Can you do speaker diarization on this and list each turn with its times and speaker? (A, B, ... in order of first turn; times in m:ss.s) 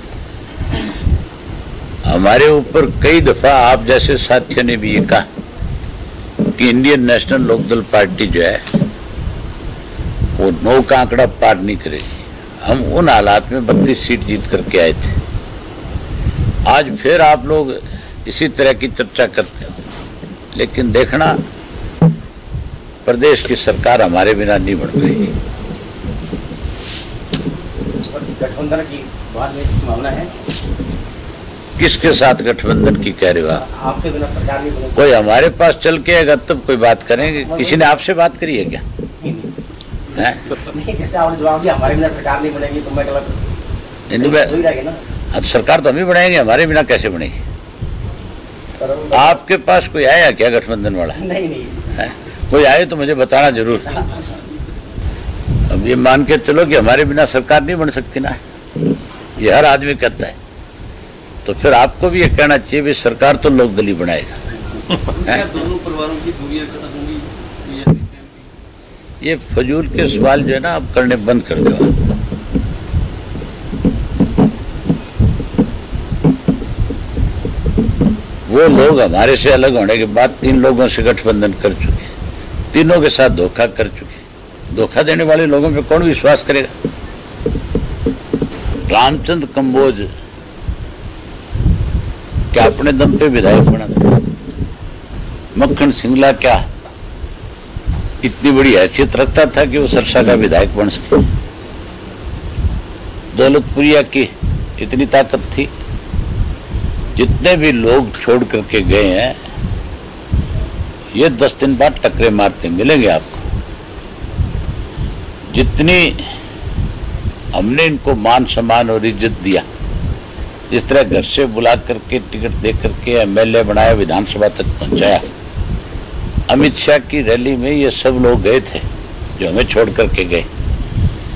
0:02.0-0:05.2 A
0:06.5-0:08.6 A
0:10.4-0:15.2 A
0:16.7-0:19.8 A
0:20.5-0:21.4 A
0:23.0-0:25.3 A
0:28.0-0:30.3 B
0:31.8-0:33.6 A
0:33.6-0:35.1 B
0:34.9-0:38.8 A
0:37.4-0:37.8 B
0:39.2-0:39.5 B
0:40.1-0:40.5 A
0:40.6-0:43.4 B
0:44.1-0:44.6 A
0:44.2-0:45.0 B
0:45.3-0:47.4 A
0:48.8-0:49.3 B
0:49.1-0:51.2 A
0:51.2-0:51.8 B
0:51.9-0:54.1 A
0:55.7-0:58.4 A
0:59.4-1:00.4 A
1:01.4-1:04.4 A
1:05.3-1:08.4 C
1:09.2-1:12.0 A
1:18.5-1:22.1 A
1:22.7-1:26.7 A
1:28.9-1:30.1 A
1:32.5-1:34.2 A
1:35.6-1:36.6 A
1:38.2-1:41.2 A
1:43.3-1:45.7 A
1:47.2-1:49.4 A
1:51.1-1:53.4 A
1:55.5-1:56.2 A
1:57.5-1:59.6 A
2:00.7-2:05.2 A
2:06.5-2:08.9 A
2:09.4-2:10.5 A